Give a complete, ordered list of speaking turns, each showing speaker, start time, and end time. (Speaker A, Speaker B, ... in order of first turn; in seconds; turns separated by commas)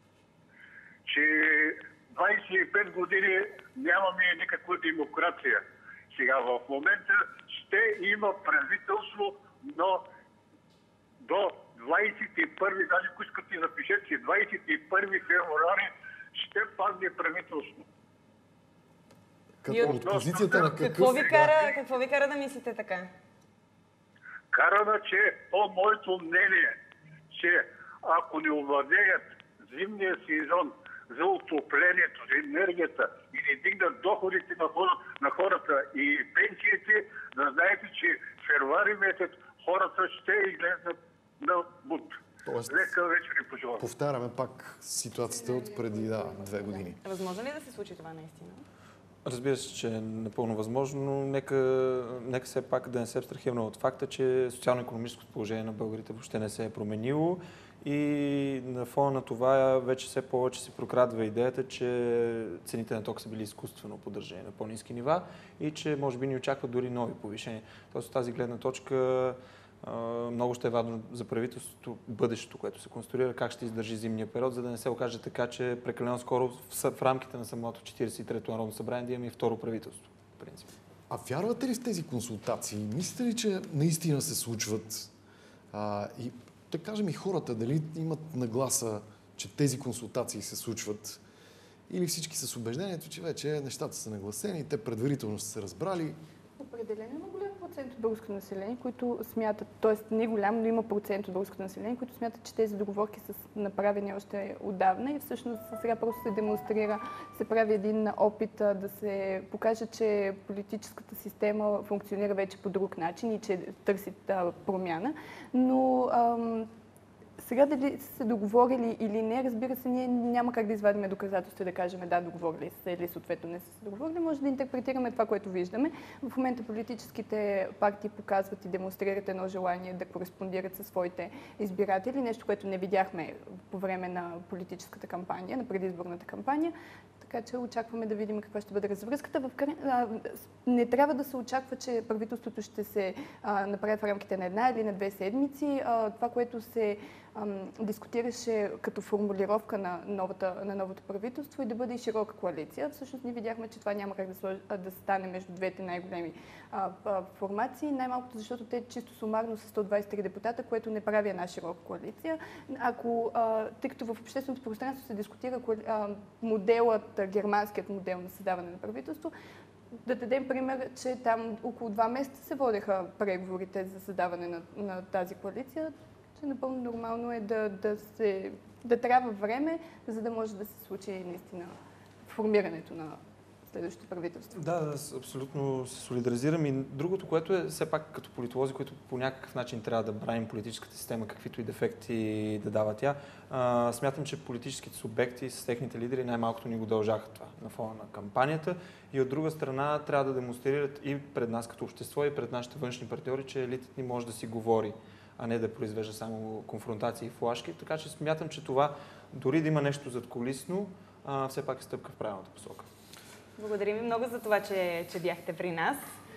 Speaker A: 1.1-10.0, Speaker A: 11.2-17.8, Speaker B: 19.6-21.6, Speaker C: 19.7-23.1, Speaker A: 20.0-20.4, Speaker A: 24.5-26.8, Speaker A: 27.3-42.2, Speaker B: 42.4-42.9, Speaker A: 42.7-43.8, Speaker B: 43.8-47.0, Speaker D: 45.3-46.8, Speaker C: 47.0-48.6, Speaker E: 49.2-80.7, Speaker B: 81.1-85.1, Speaker B: 85.7-91.2, Speaker B: 91.9-96.2, Speaker D: 96.6-116.7, Speaker D: 117.4-169.3, Speaker D: 170.0-181.7, Speaker D: 182.2-183.2, Speaker D: 183.7-184.6, Speaker E: 184.5-212.9, Speaker C: 213.6-216.0